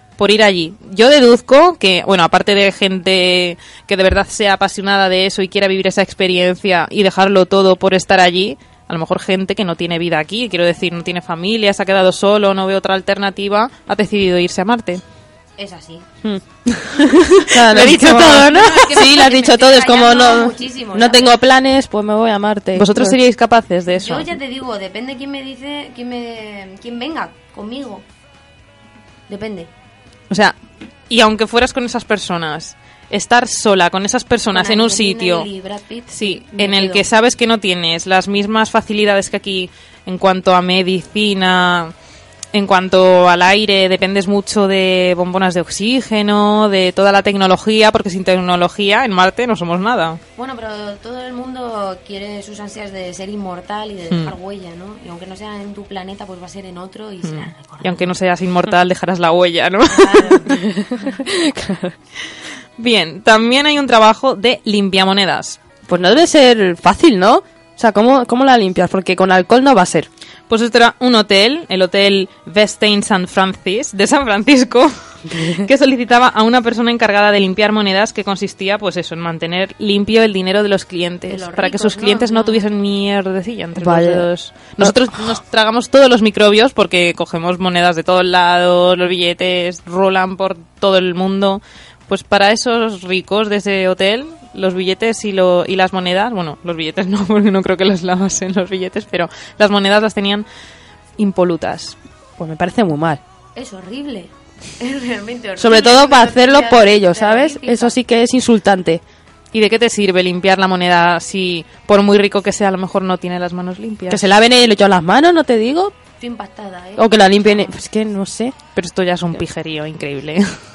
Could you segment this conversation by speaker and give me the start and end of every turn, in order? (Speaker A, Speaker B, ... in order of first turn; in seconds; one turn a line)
Speaker A: 0.2-15.0
Speaker B: 15.6-16.1
Speaker C: 16.2-23.2
Speaker A: 17.6-19.1
Speaker B: 17.8-21.4
Speaker A: 22.7-24.3
Speaker B: 23.9-28.0
Speaker B: 29.3-29.7
Speaker A: 30.3-30.5
Speaker A: 31.1-35.5
Speaker B: 34.5-37.0
Speaker A: 36.1-41.9
Speaker A: 42.5-50.2
Speaker B: 50.4-58.1
Speaker A: 57.2-60.6
Speaker B: 59.9-60.6
Speaker C: 60.5-61.9
Speaker A: 62.8-65.6
Speaker C: 65.9-70.1
Speaker A: 70.5-100.5
Speaker B: 81.3-82.7
Speaker C: 83.8-84.3
Speaker A: 101.2-101.9
Speaker C: 102.4-103.2
Speaker B: 103.5-108.0
Speaker C: 105.6-109.0
Speaker A: 109.5-114.3
Speaker C: 114.1-115.9
Speaker B: 116.2-117.9
Speaker C: 117.0-118.5
Speaker A: 118.7-120.5